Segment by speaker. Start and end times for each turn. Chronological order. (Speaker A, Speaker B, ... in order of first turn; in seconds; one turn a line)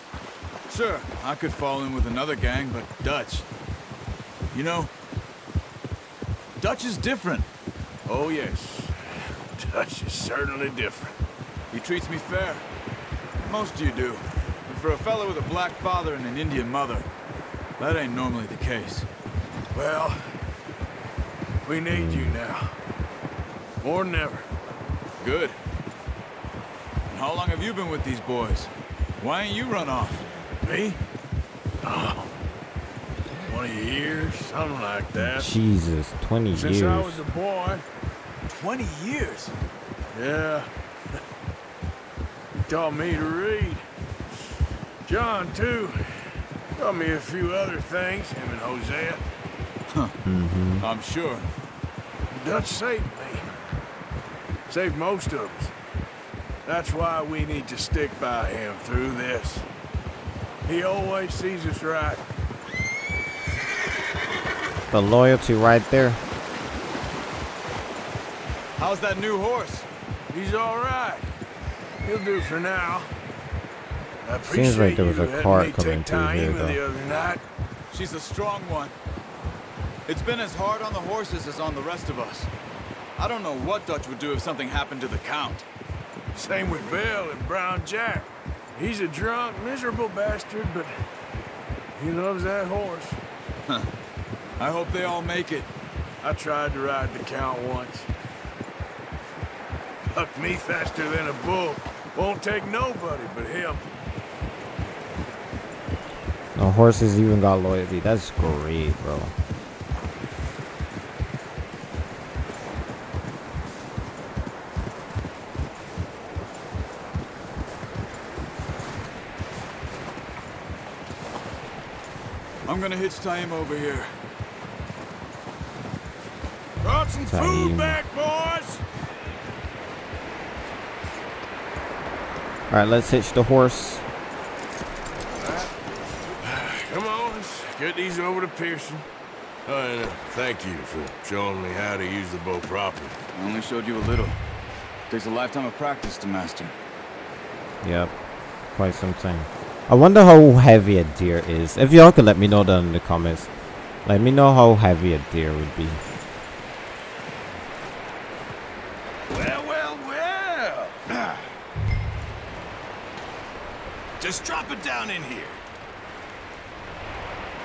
Speaker A: 0.7-3.5
Speaker A: 4.5-4.9
Speaker A: 6.6-7.5
Speaker B: 8.1-8.9
Speaker B: 9.5-11.2
Speaker A: 11.7-12.7
Speaker A: 13.4-17.1
Speaker A: 17.8-19.1
Speaker B: 19.7-20.4
Speaker B: 21.6-22.8
Speaker C: 21.9-22.4
Speaker B: 23.8-24.4
Speaker A: 25.2-25.6
Speaker A: 27.1-30.2
Speaker B: 30.6-31.0
Speaker B: 31.8-32.3
Speaker B: 33.5-35.5
Speaker C: 35.1-37.2
Speaker B: 36.5-37.8
Speaker A: 38.5-39.5
Speaker B: 40.1-40.7
Speaker B: 42.5-43.8
Speaker B: 45.0-49.2
Speaker A: 49.9-50.1
Speaker C: 50.2-50.8
Speaker A: 50.8-51.5
Speaker B: 52.3-53.5
Speaker B: 54.7-55.7
Speaker B: 56.6-59.6
Speaker B: 60.7-62.2
Speaker C: 64.9-66.2
Speaker A: 68.8-69.9
Speaker B: 70.3-71.2
Speaker B: 72.0-73.1
Speaker B: 74.2-77.4
Speaker C: 74.5-76.8
Speaker A: 77.9-78.9
Speaker A: 80.0-82.5
Speaker A: 83.2-85.7
Speaker B: 86.3-91.0
Speaker B: 92.0-93.2
Speaker A: 94.6-95.7
Speaker B: 96.2-98.1
Speaker B: 100.1-103.8
Speaker C: 106.5-109.3
Speaker A: 122.7-124.2
Speaker B: 126.8-128.8
Speaker C: 127.3-128.0
Speaker C: 132.7-134.0
Speaker B: 135.4-135.7
Speaker B: 136.4-139.1
Speaker B: 139.7-143.2
Speaker A: 143.3-144.4
Speaker A: 145.1-146.7
Speaker C: 147.8-148.1
Speaker C: 148.7-153.5
Speaker C: 154.0-156.0
Speaker D: 159.3-161.3
Speaker D: 164.2-165.6